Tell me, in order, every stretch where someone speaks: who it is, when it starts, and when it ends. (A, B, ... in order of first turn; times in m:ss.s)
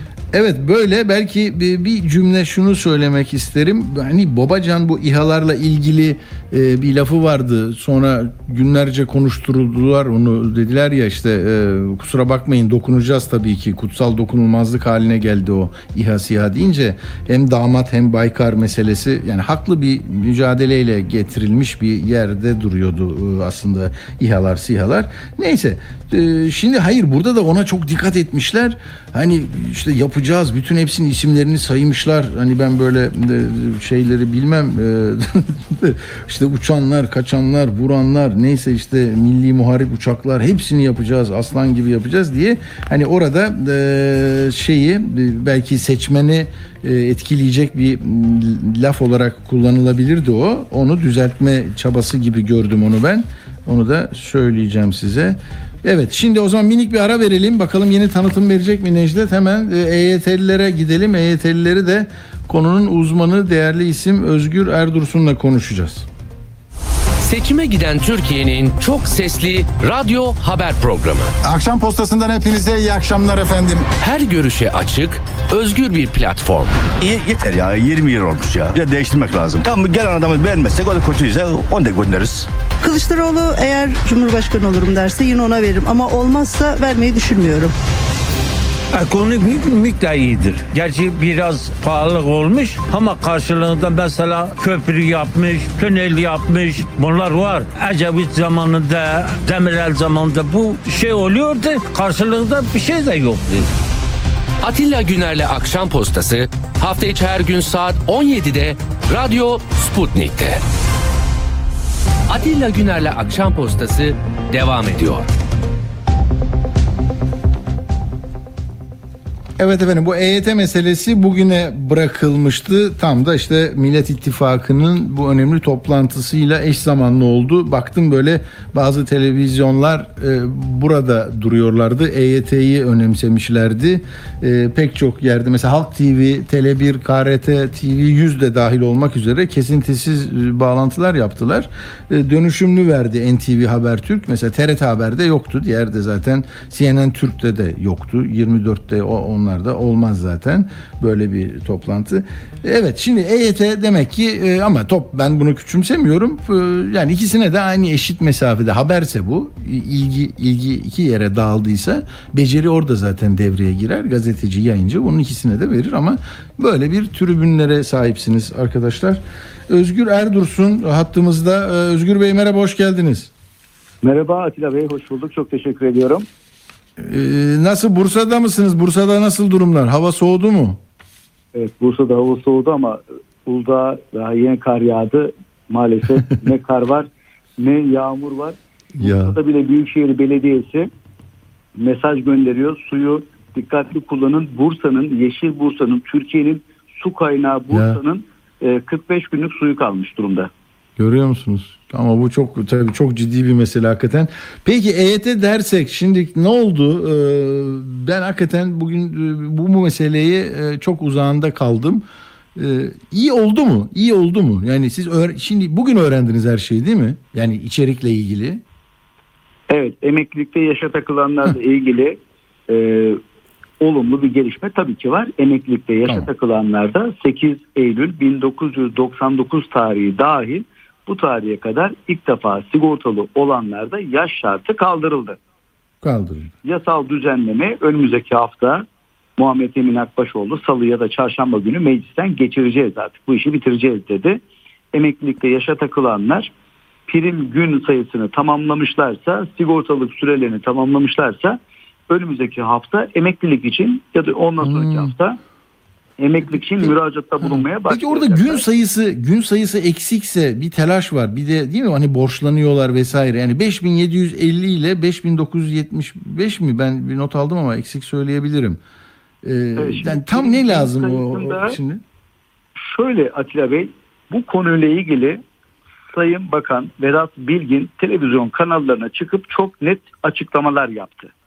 0:00.3-1:06.1 A
1:07.2-1:11.3 B
1:11.4-1:13.9 C
1:14.0-1:16.8 B
1:17.0-1:22.5 D
1:22.8-1:27.7 E
1:28.9-1:43.7 F
1:44.6-1:50.6 B
1:52.3-1:55.3 B
1:59.6-2:53.3 A
2:54.0-2:56.3 G
2:57.0-3:00.8 A
3:01.5-3:10.9 G
3:09.0-3:09.4 A
3:11.8-3:20.5 G
3:17.7-3:18.0 A
3:21.0-3:32.0 A
3:32.6-3:38.6 A
3:39.7-3:43.2 G
3:43.8-3:55.4 G
3:56.0-3:56.5 A
3:56.6-3:58.9 G
3:59.4-4:04.4 G
4:04.9-4:06.5 G
4:07.1-4:15.4 G
4:14.6-4:15.1 A
4:16.2-4:18.6 G
4:16.5-4:28.8 A
4:29.4-4:32.0 A
4:29.8-4:31.8 G
4:32.8-4:35.4 G
4:36.1-4:41.3 G